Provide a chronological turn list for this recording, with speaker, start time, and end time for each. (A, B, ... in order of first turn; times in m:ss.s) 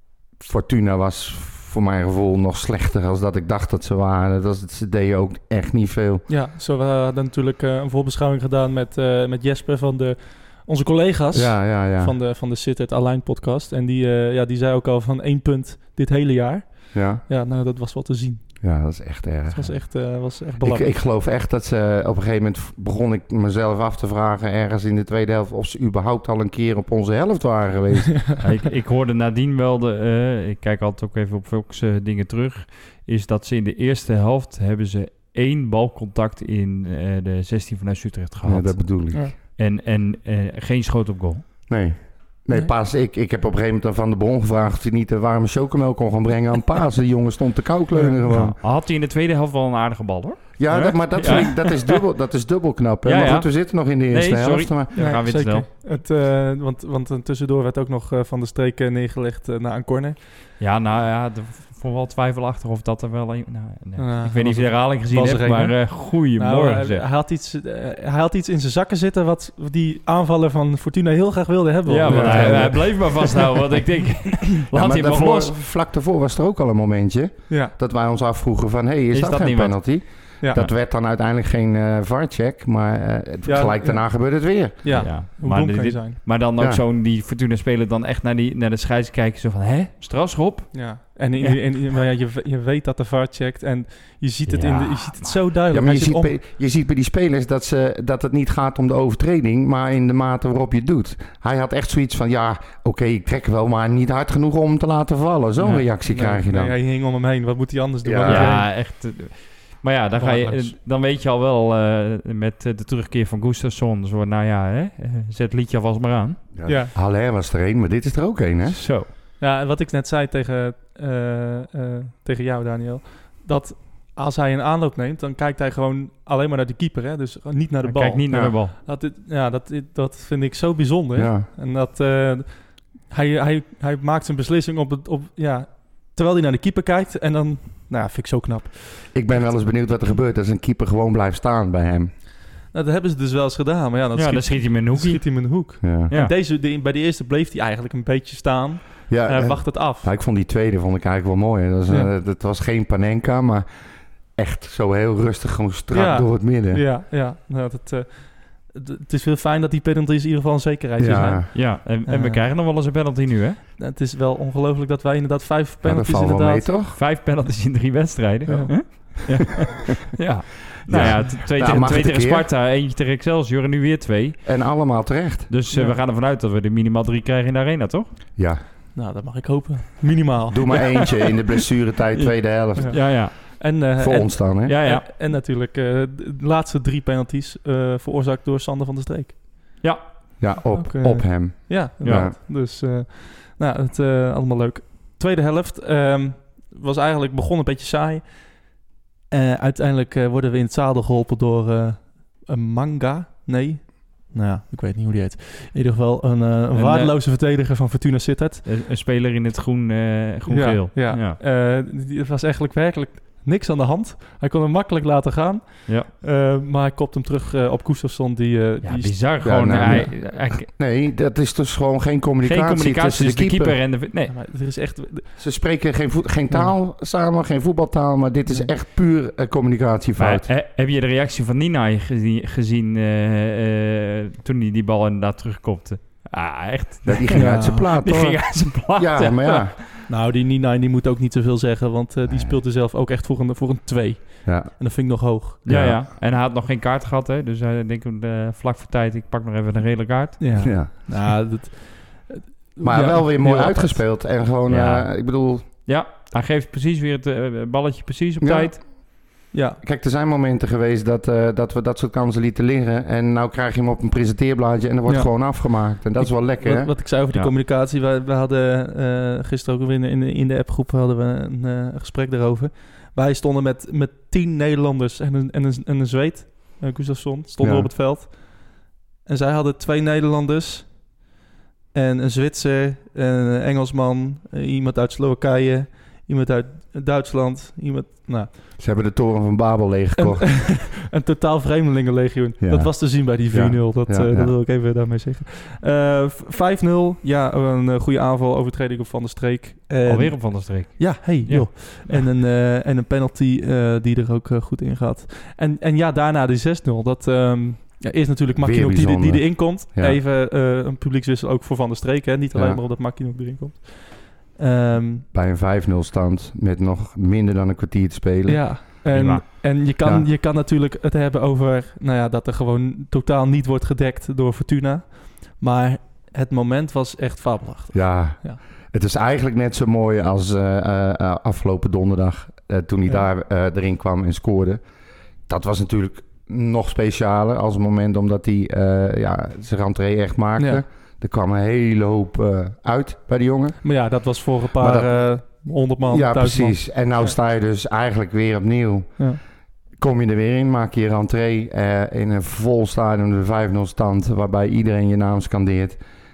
0:00.4-0:06.2 A
0:06.3-0:18.5 B
0:11.3-0:12.2 A
0:16.9-0:17.2 A
0:18.6-0:28.4 A
0:19.5-0:21.0 B
0:28.4-0:41.5 C
0:38.4-0:39.3 A
0:41.7-0:48.6 A
0:47.9-0:48.2 B
0:48.3-0:52.0 C
0:50.6-0:54.9 A
0:53.0-0:55.7 C
0:55.0-1:00.2 B
1:00.6-1:07.1 C
1:04.0-1:13.5 B
1:11.9-1:15.5 C
1:12.0-1:13.6 A
1:14.7-1:25.1 A
1:17.5-1:17.7 B
1:19.1-1:20.7 C
1:23.4-1:26.2 B
1:24.9-1:31.6 C
1:26.6-1:26.8 A
1:30.7-1:36.3 B
1:34.5-1:35.5 C
1:35.7-1:46.8 A
1:45.6-1:48.7 B
1:48.0-1:48.6 A
1:48.3-1:56.4 C
1:50.2-1:50.8 B
1:56.5-1:58.8 A
1:56.7-1:56.9 B
1:58.7-1:59.1 C
1:59.4-2:19.0 B
2:07.8-2:08.8 C
2:08.3-2:08.6 A
2:11.2-2:11.5 A
2:19.1-2:22.1 A
2:22.7-2:30.1 B
2:24.2-2:25.6 C
2:25.8-2:26.1 A
2:29.1-2:33.7 A
2:34.4-2:36.8 A
2:35.9-2:42.4 B
2:41.0-2:41.5 A
2:41.5-2:43.6 C
2:43.8-2:46.7 B
2:45.8-2:47.0 A
2:46.9-2:54.6 C
2:48.5-2:49.0 B
2:50.9-2:52.5 A
2:54.4-2:55.5 A
2:55.5-2:58.1 C
2:55.7-2:56.0 B
2:58.4-2:58.6 A
2:59.0-3:00.8 B
3:00.5-3:04.8 A
3:02.8-3:09.7 B
3:02.9-3:03.4 C
3:04.7-3:05.1 C
3:09.8-3:10.1 C
3:10.4-3:12.4 A
3:10.8-3:18.6 B
3:12.0-3:12.3 C
3:19.3-3:28.6 B
3:26.7-3:27.2 C
3:28.6-3:31.4 C
3:30.5-3:39.2 B
3:38.8-3:40.7 C
3:39.4-3:43.8 A
3:39.8-3:40.1 B
3:42.4-3:44.4 C
3:44.3-3:45.3 B
3:45.4-3:50.5 A
3:50.2-4:00.1 C
3:57.1-3:59.8 A
3:57.3-3:57.9 B
4:00.1-4:05.6 B
4:02.3-4:02.6 A
4:04.4-4:04.7 A
4:05.7-4:06.0 A
4:05.7-4:10.6 C
4:10.4-4:14.1 B
4:10.6-4:10.9 A
4:12.8-4:15.6 A
4:14.7-4:18.8 C
4:18.4-4:19.2 A
4:19.5-4:19.8 B
4:19.8-4:27.0 A
4:25.1-4:41.1 B
4:37.6-4:37.9 A
4:41.9-4:48.5 B
4:48.8-4:50.8 A
4:50.2-5:15.2 B
4:52.6-4:54.5 A
5:00.0-5:02.3 C
5:08.6-5:10.2 A
5:12.5-5:12.8 A
5:15.3-5:18.8 A
5:18.5-5:28.6 B
5:19.1-5:19.4 C
5:27.9-5:34.8 A
5:35.5-5:43.9 A
5:40.6-5:40.8 B
5:43.8-5:47.3 B
5:44.8-5:45.5 A
5:46.1-5:49.3 A
5:50.0-5:56.0 A